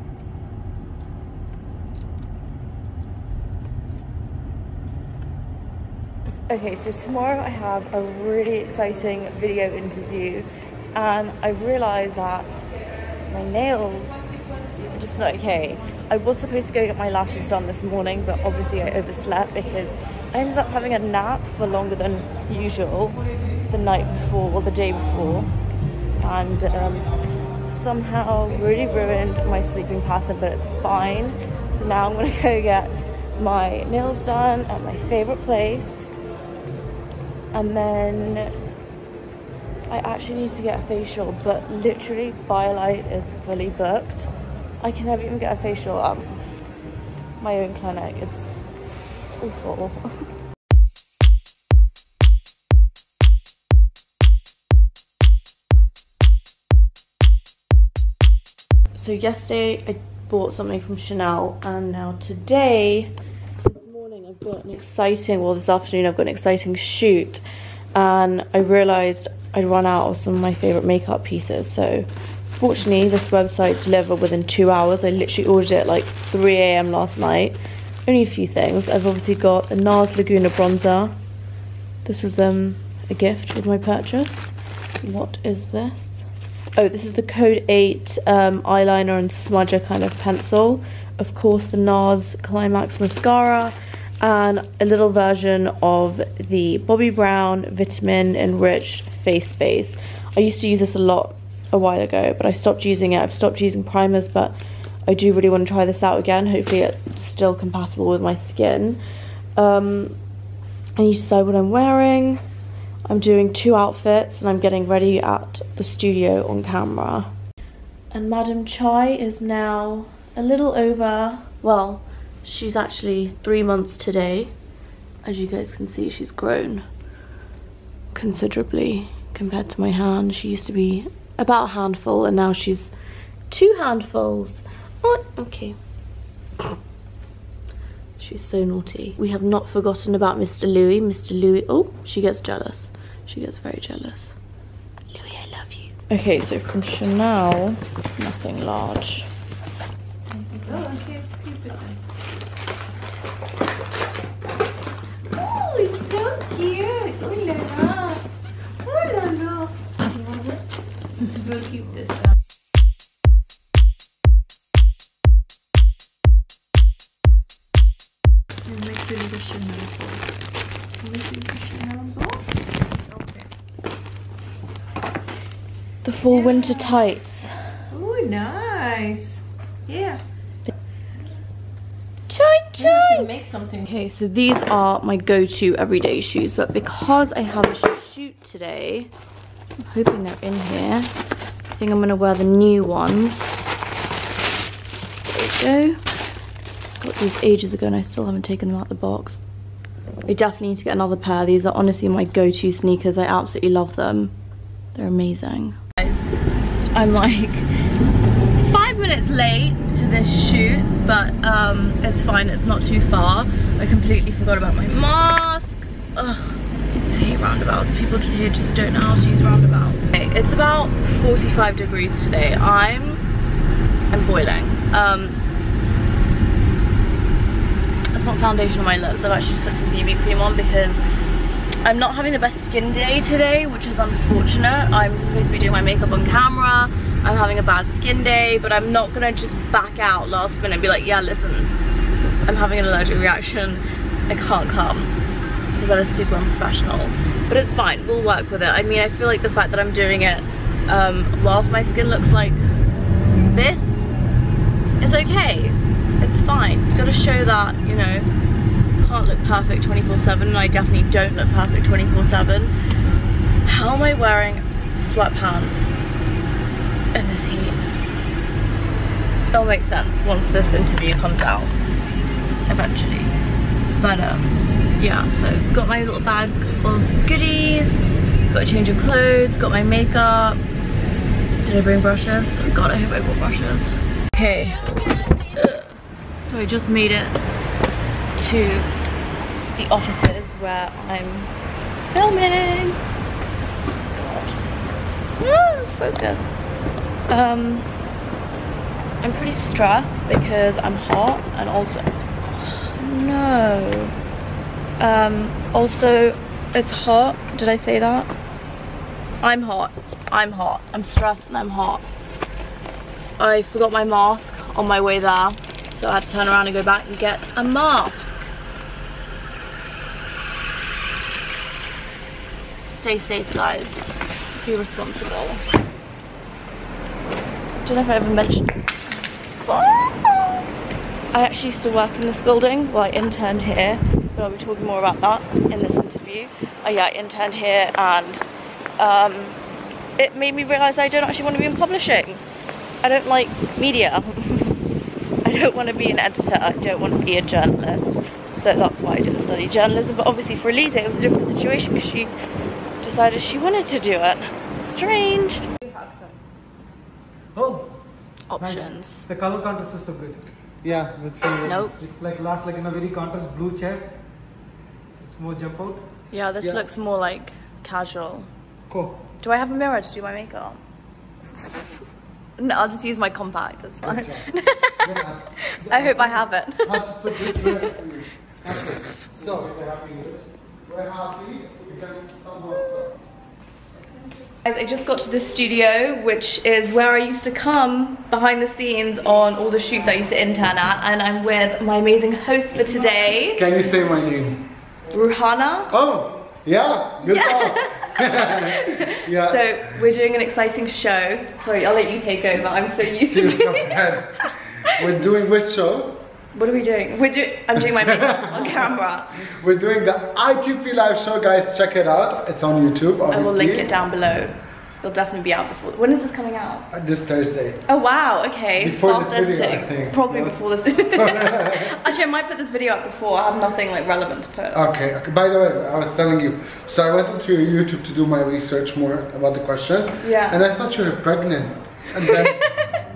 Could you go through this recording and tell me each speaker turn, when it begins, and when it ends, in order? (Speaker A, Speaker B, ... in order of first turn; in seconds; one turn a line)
Speaker A: 6.5-12.5
Speaker A: 13.3-14.2
Speaker A: 14.9-25.5
Speaker A: 26.2-27.1
Speaker A: 27.7-36.1
Speaker A: 37.5-38.5
Speaker A: 39.9-46.6
Speaker A: 47.4-48.6
Speaker A: 49.3-50.0
Speaker A: 59.0-63.1
Speaker A: 63.6-67.4
Speaker A: 68.0-81.2
Speaker A: 82.0-109.0
Speaker A: 109.6-110.2
Speaker A: 111.0-112.4
Speaker A: 113.1-117.3
Speaker A: 118.1-124.5
Speaker A: 125.2-126.9
Speaker A: 128.1-132.9
Speaker A: 133.5-135.8
Speaker A: 138.2-144.4
Speaker A: 145.1-149.3
Speaker B: 150.3-152.0
Speaker B: 155.3-158.2
Speaker B: 158.8-160.6
Speaker B: 161.4-162.3
Speaker B: 168.7-170.2
Speaker B: 171.0-172.4
Speaker B: 173.1-173.5
Speaker A: 176.0-177.5
Speaker B: 176.3-177.0
Speaker B: 177.9-180.2
Speaker A: 182.3-183.3
Speaker B: 182.8-183.9
Speaker A: 183.9-189.1
Speaker A: 189.9-191.1
Speaker A: 191.7-193.7
Speaker A: 195.3-196.0
Speaker A: 197.0-199.4
Speaker A: 200.3-204.3
Speaker A: 204.9-206.3
Speaker A: 206.9-207.7
Speaker A: 208.6-223.2
Speaker A: 224.1-225.4
Speaker A: 228.1-231.0
Speaker A: 231.8-241.7
Speaker A: 242.4-245.2
Speaker A: 245.8-252.6
Speaker A: 253.4-254.1
Speaker A: 255.0-258.3
Speaker A: 259.0-262.7
Speaker A: 263.6-265.9
Speaker A: 267.1-267.8
Speaker A: 269.5-271.8
Speaker A: 272.7-273.3
Speaker A: 274.0-280.6
Speaker A: 281.6-287.4
Speaker A: 288.4-288.9
Speaker A: 289.8-291.5
Speaker A: 292.1-293.0
Speaker A: 294.1-294.6
Speaker A: 295.4-296.5
Speaker A: 297.3-297.9
Speaker A: 299.2-304.1
Speaker A: 305.0-308.3
Speaker A: 309.4-312.1
Speaker A: 313.4-318.5
Speaker A: 322.9-325.6
Speaker A: 327.9-328.8
Speaker A: 329.6-330.1
Speaker A: 331.3-338.4
Speaker A: 339.0-339.6
Speaker A: 340.2-342.4
Speaker A: 343.0-344.8
Speaker A: 345.4-352.3
Speaker A: 353.0-355.6
Speaker B: 355.9-356.3
Speaker C: 357.6-358.0
Speaker A: 358.5-359.3
Speaker C: 358.6-360.4
Speaker D: 360.8-361.9
Speaker A: 361.6-362.0
Speaker C: 362.0-364.2
Speaker C: 365.2-366.1
Speaker A: 366.3-368.5
Speaker D: 366.6-366.9
Speaker D: 368.9-369.3
Speaker A: 369.4-370.8
Speaker A: 372.6-375.1
Speaker D: 374.0-379.7
Speaker A: 375.6-377.9
Speaker C: 379.3-380.5
Speaker D: 380.8-383.2
Speaker A: 384.6-393.6
Speaker D: 393.5-394.6
Speaker A: 395.1-395.9
Speaker D: 395.9-399.8
Speaker A: 397.3-404.5
Speaker D: 403.3-406.2
Speaker A: 406.5-409.4
Speaker D: 407.8-408.9
Speaker D: 409.4-414.0
Speaker A: 413.3-416.9
Speaker D: 416.9-417.8
Speaker A: 417.9-424.9
Speaker D: 418.8-422.0
Speaker D: 424.7-432.6
Speaker A: 430.2-430.6
Speaker A: 432.2-433.0